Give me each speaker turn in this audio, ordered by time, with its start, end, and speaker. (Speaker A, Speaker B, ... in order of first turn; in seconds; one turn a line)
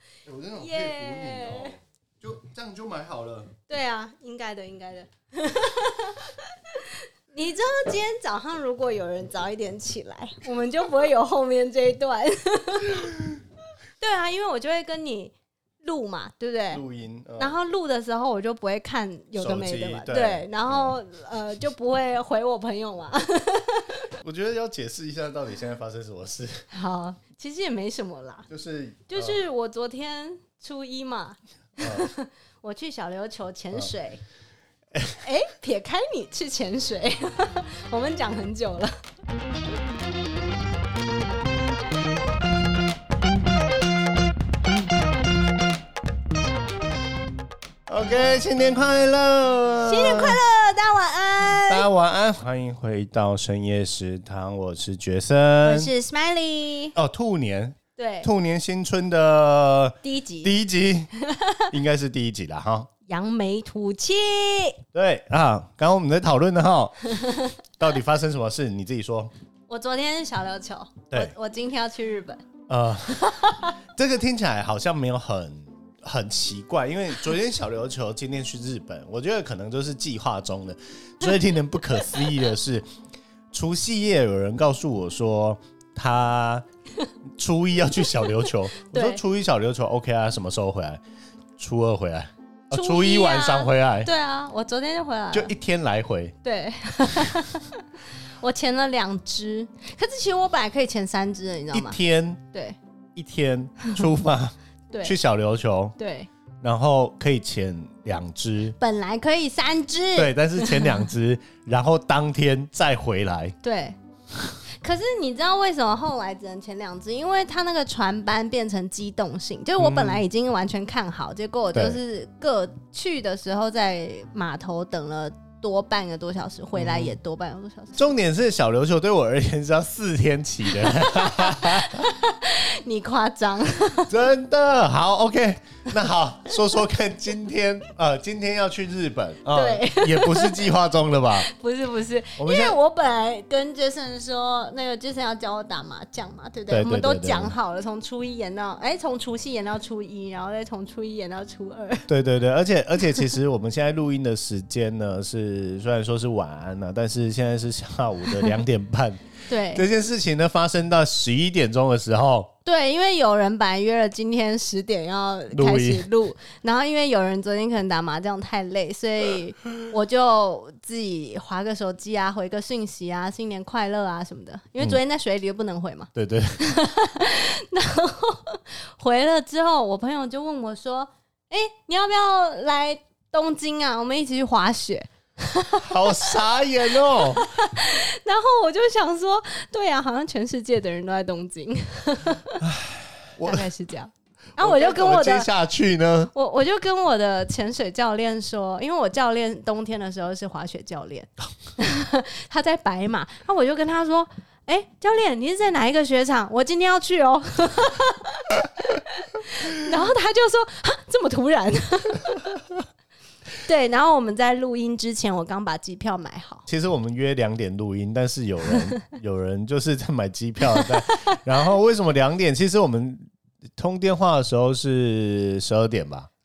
Speaker A: 0.2-3.5
Speaker B: 0.6-1.8
Speaker B: 3.7-13.1
Speaker B: 14.0-16.8
Speaker A: 16.7-17.6
Speaker B: 17.4-24.1
Speaker A: 19.4-21.0
Speaker A: 24.2-26.7
Speaker B: 26.7-28.5
Speaker A: 28.5-29.4
Speaker B: 29.1-34.2
Speaker A: 31.8-32.1
Speaker A: 34.9-35.2
Speaker B: 35.2-38.9
Speaker A: 47.9-50.4
Speaker B: 49.8-51.9
Speaker A: 51.5-55.9
Speaker B: 55.6-57.0
Speaker A: 57.0-61.1
Speaker B: 58.0-58.3
Speaker B: 60.0-60.5
Speaker B: 61.2-61.7
Speaker A: 61.7-62.9
Speaker B: 63.1-64.8
Speaker A: 64.9-67.0
Speaker B: 67.2-67.5
Speaker A: 67.8-69.3
Speaker B: 69.7-72.4
Speaker A: 72.7-82.8
Speaker B: 73.2-73.7
Speaker B: 81.9-82.3
Speaker A: 83.5-86.7
Speaker A: 87.4-91.0
Speaker B: 88.2-89.2
Speaker A: 91.6-94.1
Speaker B: 92.7-95.5
Speaker A: 95.3-96.3
Speaker B: 96.4-97.9
Speaker B: 98.4-102.0
Speaker A: 101.7-102.4
Speaker A: 103.2-106.0
Speaker B: 104.9-105.2
Speaker B: 106.0-106.3
Speaker A: 106.6-108.8
Speaker B: 108.8-111.1
Speaker A: 110.2-113.6
Speaker B: 113.6-114.0
Speaker B: 114.8-128.1
Speaker A: 119.8-120.2
Speaker A: 121.7-122.0
Speaker A: 126.8-127.2
Speaker A: 128.0-132.1
Speaker B: 130.7-134.1
Speaker A: 134.1-141.5
Speaker B: 139.5-140.7
Speaker B: 141.3-152.1
Speaker A: 142.4-142.8
Speaker A: 146.7-147.5
Speaker A: 152.1-162.5
Speaker B: 159.5-159.9
Speaker B: 162.7-186.4
Speaker A: 165.5-166.1
Speaker A: 176.1-176.6
Speaker A: 185.8-187.5
Speaker B: 186.9-192.7
Speaker A: 192.6-193.7
Speaker B: 193.4-195.5
Speaker A: 194.6-196.3
Speaker B: 196.3-212.5
Speaker B: 213.6-216.7
Speaker A: 216.7-223.2
Speaker B: 220.8-221.4
Speaker A: 223.8-226.3